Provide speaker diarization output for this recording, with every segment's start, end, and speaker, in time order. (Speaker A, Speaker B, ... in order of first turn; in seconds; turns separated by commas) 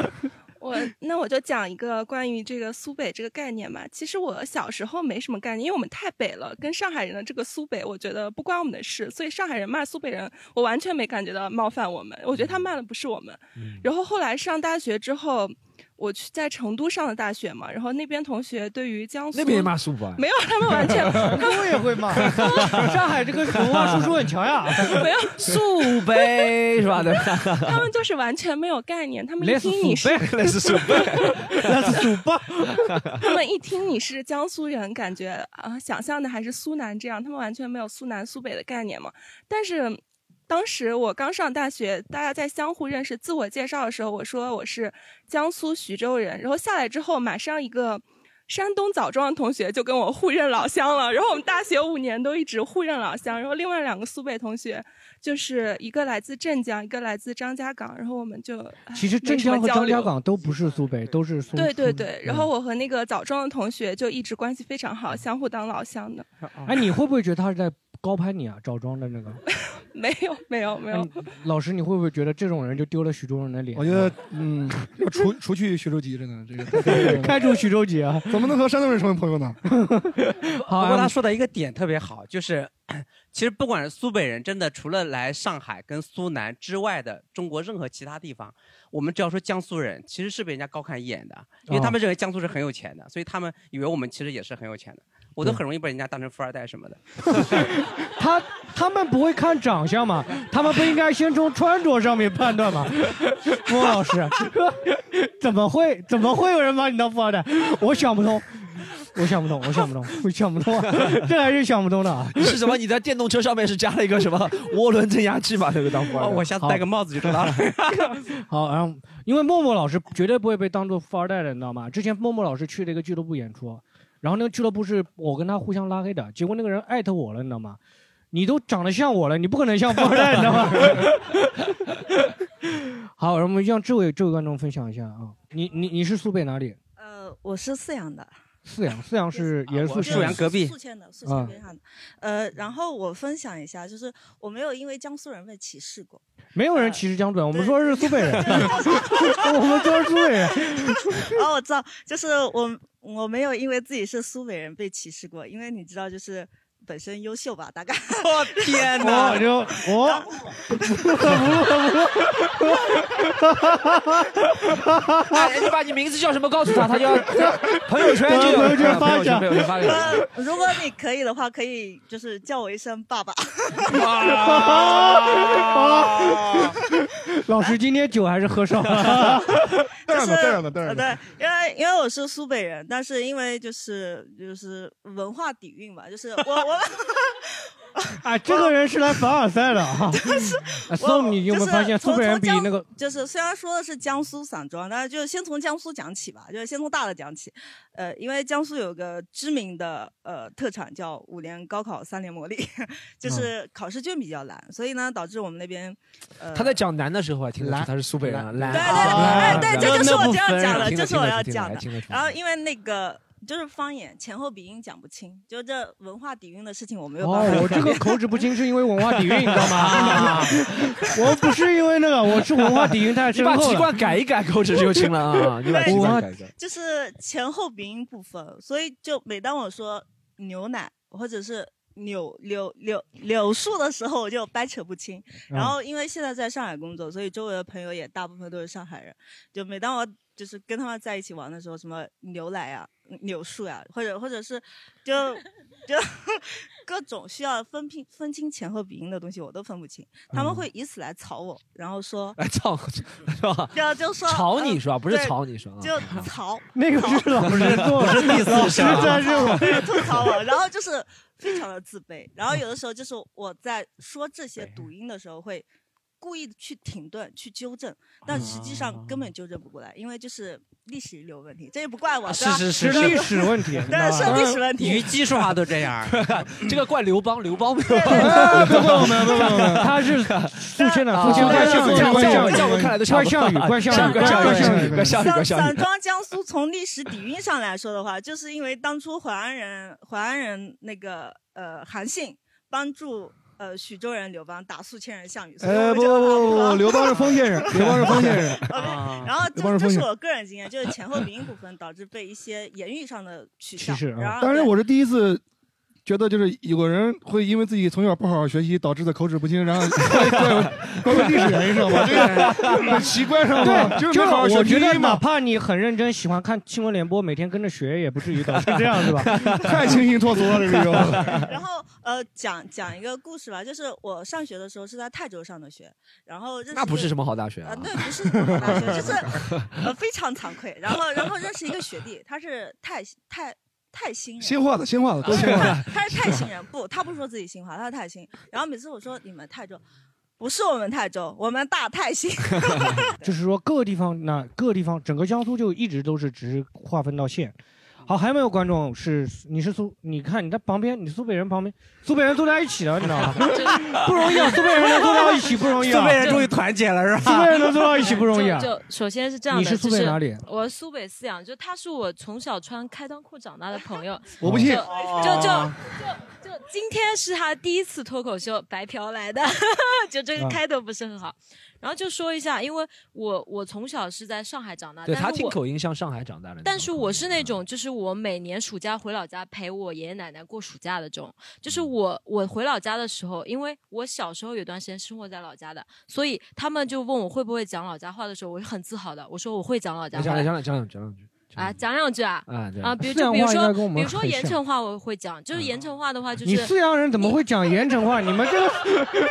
Speaker A: 0.6-22.8, Speaker B: 12.4-12.7, Speaker B: 13.6-13.8, Speaker B: 19.3-21.3, Speaker C: 21.2-25.0, Speaker B: 22.1-24.1, Speaker B: 24.8-27.9, Speaker A: 24.9-26.6, Speaker A: 27.1-31.6, Speaker C: 29.4-30.3, Speaker B: 30.2-32.0, Speaker C: 31.5-33.0, Speaker A: 33.2-60.1, Speaker C: 58.9-62.5, Speaker D: 60.5-61.2, Speaker A: 61.5-66.3, Speaker C: 66.7-69.4, Speaker A: 69.6-71.1, Speaker C: 70.9-74.1, Speaker E: 73.8-77.5, Speaker C: 76.8-78.4, Speaker E: 78.3-79.6, Speaker C: 79.7-81.1, Speaker D: 80.4-97.6, Speaker C: 91.7-92.0, Speaker C: 97.3-112.6, Speaker B: 112.4-116.5, Speaker D: 116.1-118.2, Speaker C: 116.6-116.9, Speaker C: 118.3-127.8, Speaker C: 128.3-132.0, Speaker C: 133.2-136.8, Speaker F: 137.0-138.3, Speaker C: 138.7-140.5, Speaker F: 139.3-146.2, Speaker D: 139.7-140.8, Speaker C: 141.2-141.5, Speaker C: 146.6-151.3, Speaker F: 146.7-147.0, Speaker F: 147.5-161.4, Speaker D: 158.2-159.5, Speaker C: 159.0-160.3, Speaker C: 160.8-165.4, Speaker B: 165.3-170.3, Speaker C: 168.1-169.6, Speaker F: 169.8-174.3, Speaker E: 174.2-175.4, Speaker C: 174.2-176.6, Speaker C: 177.4-179.5, Speaker E: 180.1-181.1, Speaker F: 180.1-187.4, Speaker F: 188.0-188.8, Speaker C: 188.2-192.9, Speaker F: 190.1-206.8, Speaker B: 206.5-212.3, Speaker E: 207.6-209.7, Speaker F: 208.7-218.4, Speaker D: 208.9-210.9, Speaker C: 209.2-209.7, Speaker C: 217.2-223.9, Speaker B: 219.2-220.4, Speaker D: 219.8-220.5, Speaker B: 222.8-226.5, Speaker F: 225.6-252.4, Speaker C: 225.8-226.3, Speaker C: 235.5-235.8, Speaker C: 250.3-250.6, Speaker B: 252.4-256.3, Speaker F: 253.7-257.4, Speaker C: 256.7-259.8, Speaker D: 257.5-259.4, Speaker B: 258.5-259.8, Speaker F: 258.5-265.7, Speaker D: 264.6-264.9, Speaker F: 266.2-275.1, Speaker D: 268.3-269.3, Speaker D: 272.3-273.5, Speaker C: 272.8-274.4, Speaker E: 274.2-274.6, Speaker D: 274.8-276.8, Speaker B: 276.1-280.6, Speaker F: 277.8-279.6, Speaker E: 278.1-279.9, Speaker C: 279.2-285.1, Speaker F: 280.8-282.7, Speaker B: 281.1-285.9, Speaker E: 281.3-283.0, Speaker F: 283.9-304.7, Speaker E: 284.2-285.2, Speaker E: 295.6-298.7, Speaker D: 298.7-299.3, Speaker E: 299.5-300.1, Speaker C: 303.8-304.4, Speaker E: 304.4-305.4, Speaker E: 306.1-315.2, Speaker B: 310.0-313.1, Speaker D: 312.1-312.7, Speaker C: 313.6-319.3, Speaker B: 318.4-321.5, Speaker E: 319.4-321.4, Speaker F: 321.5-334.7, Speaker B: 326.7-329.7, Speaker E: 328.7-329.0, Speaker E: 334.4-335.9, Speaker F: 335.2-339.8, Speaker B: 335.3-336.3, Speaker F: 340.4-343.3, Speaker C: 343.2-347.6, Speaker C: 348.1-356.5, Speaker G: 353.4-353.9, Speaker D: 353.5-358.1, Speaker G: 354.4-356.5, Speaker C: 357.2-358.7, Speaker G: 358.0-375.6, Speaker C: 359.5-360.4, Speaker E: 364.4-364.9, Speaker D: 364.9-365.8, Speaker B: 375.1-377.6, Speaker G: 376.6-390.5, Speaker B: 390.1-391.8, Speaker G: 391.6-397.4, Speaker B: 392.5-393.0, Speaker C: 393.0-394.6, Speaker B: 395.5-395.8, Speaker C: 396.4-399.1